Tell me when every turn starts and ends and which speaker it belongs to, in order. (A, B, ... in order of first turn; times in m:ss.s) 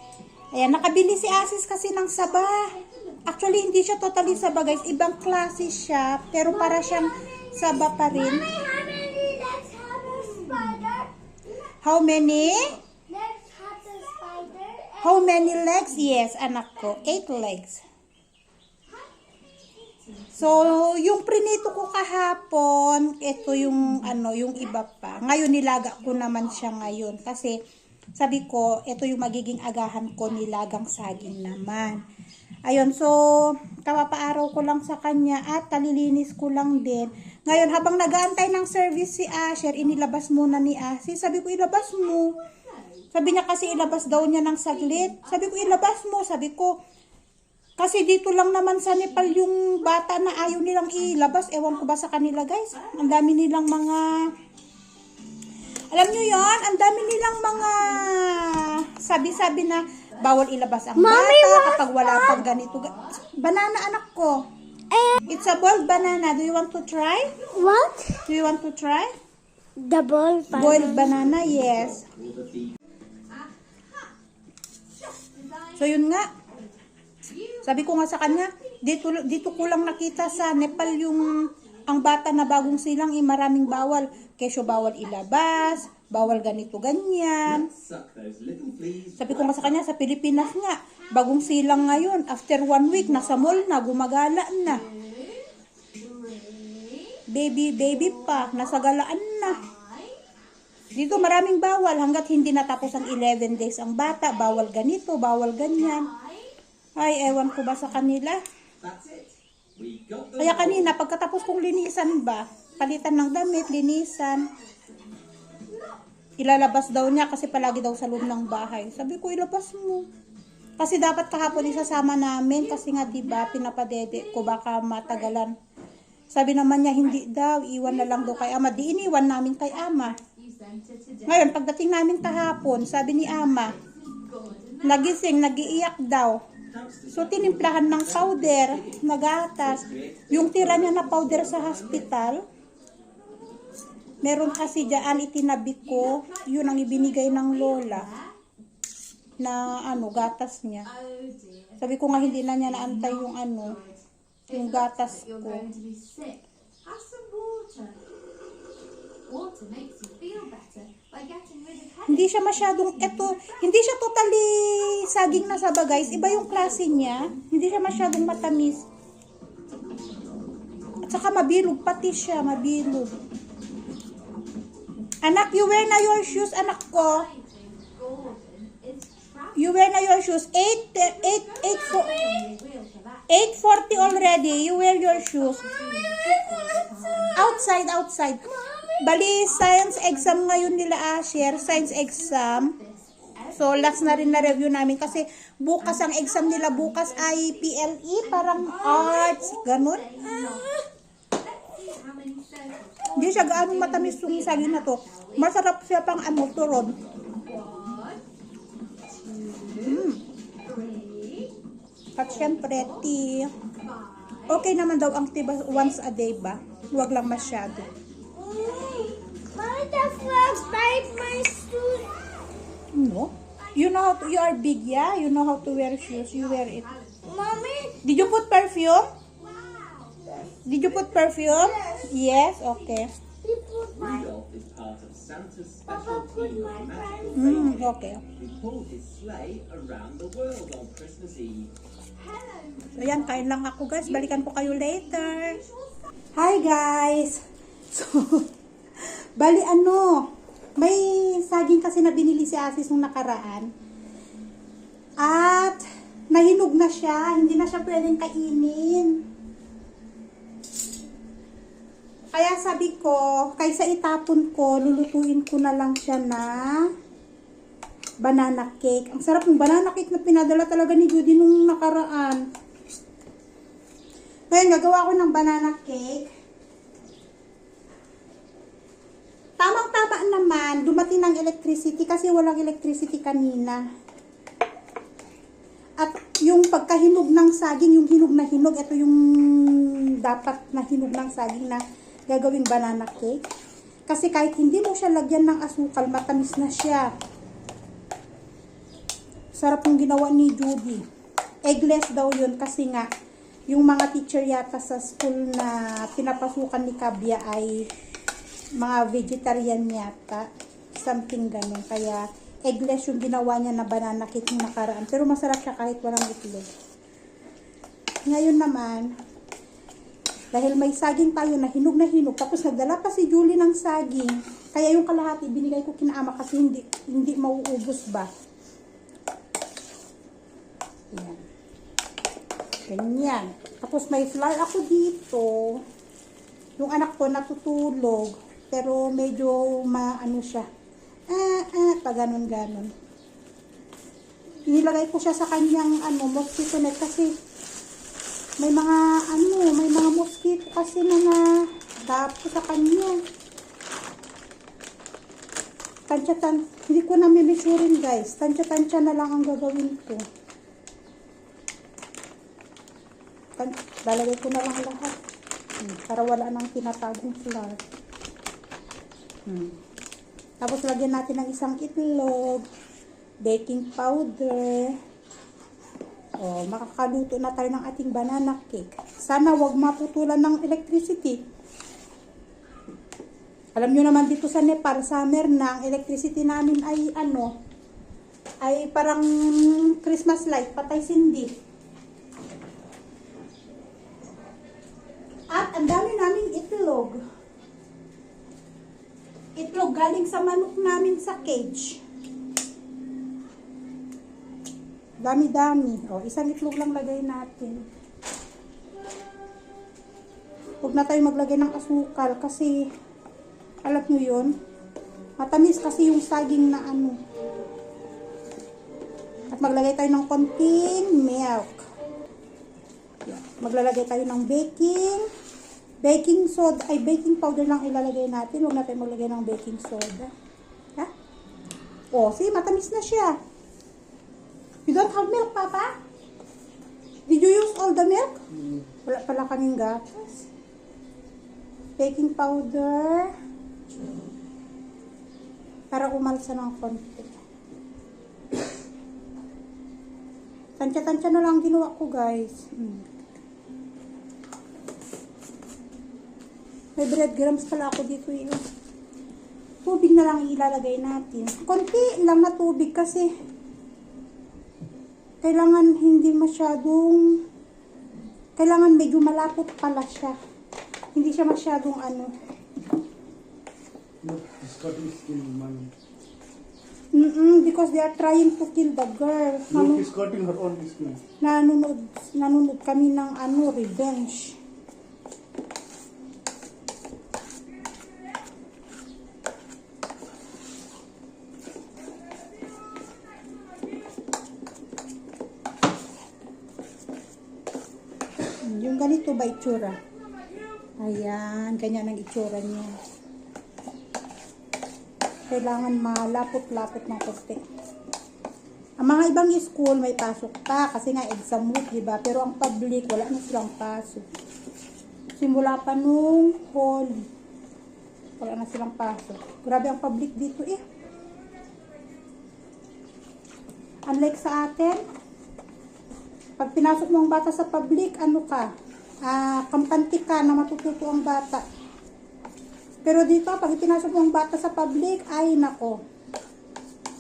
0:00.5-0:02.7 A
0:02.5-0:03.2 B
0:03.3-0:08.5 A
0:04.6-0:05.5 B
0:08.0-0:11.1 C
0:10.4-0:10.7 B
0:11.8-0:12.8 A
0:12.2-0:12.7 B
0:13.1-0:15.7 C
0:15.0-0:17.8 A
0:19.7-0:20.6 B
0:20.3-0:27.6 A
0:28.2-0:32.0 A
0:30.9-0:32.0 B
0:32.7-0:42.3 A
0:42.5-0:44.1 B
0:43.1-0:46.7 A
0:45.0-0:45.6 B
0:47.8-0:54.3 A
0:55.9-1:04.4 A
0:57.7-0:58.1 B
1:01.0-1:02.4 C
1:02.6-1:03.0 B
1:04.9-1:05.2 C
1:05.3-1:07.4 A
1:07.5-1:08.3 C
1:08.3-1:09.1 A
1:09.8-1:11.2 C
1:10.5-1:12.0 A
1:10.7-1:12.7 D
1:13.3-1:14.1 B
1:15.1-1:16.7 B
1:15.8-1:16.3 A
1:17.2-1:22.6 B
1:17.6-1:27.7 A
1:27.5-1:29.6 D
1:29.2-1:34.9 A
1:34.8-1:37.2 B
1:37.3-1:39.6 A
1:38.0-1:38.6 B
1:39.4-1:40.2 B
1:41.0-1:46.1 A
1:45.8-1:46.5 B
1:47.0-1:48.4 A
1:48.8-1:50.9 D
1:50.4-1:54.5 A
1:55.7-1:56.0 B
1:56.4-2:00.1 A
1:57.3-1:58.6 B
2:00.8-2:05.5 A
2:02.8-2:03.4 B
2:06.3-2:10.2 A
2:08.0-2:08.9 B
2:10.0-2:11.5 B
2:11.3-2:13.8 A
2:13.8-2:15.4 B
2:14.8-2:16.4 A
2:16.7-2:19.0 D
2:17.1-2:22.4 A
2:19.7-2:22.0 D
2:24.2-2:28.1 A
2:24.2-2:25.1 B
2:25.8-2:28.3 B
2:29.4-2:30.9 A
2:30.9-2:31.8 B
2:31.8-2:33.8 A
2:32.4-2:34.0 B
2:34.5-2:35.7 A
2:34.6-2:38.0 B
2:39.3-2:43.6 B
2:42.1-2:48.8 A
2:45.6-2:47.3 B
2:51.1-2:53.1 A
2:55.2-2:57.3 A
2:56.6-2:59.7 B
2:59.6-3:02.2 A
3:01.0-3:03.3 B
3:03.3-3:05.7 A
3:03.9-3:07.4 B
3:07.3-3:12.8 A
3:09.6-3:10.6 B
3:11.7-3:14.4 B
3:13.5-3:20.3 A
3:15.9-3:17.5 B
3:18.4-3:20.8 B
3:21.4-3:25.4 B
3:23.1-3:27.0 A
3:27.4-3:28.2 B
3:29.1-3:30.1 B
3:29.8-3:30.2 A
3:30.6-3:31.6 B
3:32.2-3:33.5 A
3:32.2-3:32.9 B
3:33.8-3:34.7 B
3:34.5-3:37.9 A
3:36.7-3:38.1 B
3:38.4-3:42.2 C
3:38.6-3:39.4 B
3:40.3-3:41.4 B
3:42.9-3:46.9 A
3:43.6-3:44.2 B
3:45.8-3:47.2 B
3:47.3-3:48.0 C
3:48.0-3:49.0 A
3:49.4-3:50.3 B
3:50.6-3:53.1 A
3:51.5-3:52.1 C
3:52.5-3:53.0 B
3:53.4-3:54.3 C
3:54.0-3:57.8 D
3:55.9-3:57.3 C
3:57.3-3:58.2 A
3:58.4-4:01.7 D
4:02.2-4:03.4 B
4:03.0-4:05.6 A
4:04.2-4:06.0 B
4:06.4-4:07.4 A
4:07.9-4:08.5 A
4:09.0-4:10.2 A
4:10.8-4:13.7 A
4:15.2-4:19.2 A
4:22.3-4:26.8 A
4:28.2-4:32.4 A
4:34.5-4:36.3 A
4:39.6-4:43.8 A
4:46.0-4:53.4 A
4:54.1-4:57.1 A
4:59.6-5:01.0 A
5:01.7-5:03.1 A
5:03.7-5:07.8 A
5:08.8-5:10.4 A
5:11.0-5:16.7 A
5:18.3-5:19.1 A
5:20.5-5:28.3 A
5:31.1-5:31.4 A
5:32.9-5:35.8 A
5:36.8-5:40.7 A
5:41.3-5:42.9 A
5:44.7-5:47.3 A
5:48.6-5:51.4 A
5:52.0-5:53.2 A
5:56.1-6:00.2 A
6:03.6-6:05.2 A
6:05.8-6:07.8 A
6:09.5-6:09.8 A
6:10.6-6:12.6 A
6:13.4-6:15.0 A
6:16.4-6:21.4 A
6:23.8-6:27.5 A
6:28.6-6:31.5 A
6:35.5-6:37.2 A
6:39.6-6:42.0 A
6:45.2-6:47.9 A
6:50.8-6:52.9 A
6:53.8-6:54.6 A
6:55.4-6:57.2 A
6:59.5-7:01.8 A
7:03.3-7:05.3 A
7:06.0-7:10.3 A
7:12.1-7:13.4 A
7:14.9-7:15.9 A
7:17.3-7:18.4 A
7:19.0-7:20.4 A
7:22.0-7:23.3 A
7:25.9-7:27.3 A
7:30.8-7:33.1 A
7:37.0-7:38.6 A
7:39.8-7:43.3 A
7:45.4-7:47.4 A
7:48.6-7:50.4 A
7:51.2-7:52.3 A
7:54.2-7:55.9 E
7:57.2-8:00.0 A
7:59.7-8:01.2 E
8:01.4-8:04.6 A
8:18.6-8:20.0 A
8:21.0-8:22.9 A
8:25.5-8:27.6 A
8:29.0-8:34.2 A
8:35.4-8:37.3 A
8:38.4-8:40.8 A
8:44.1-8:45.0 A
8:46.6-8:48.7 A
8:49.3-8:51.6 A
8:53.0-8:56.0 A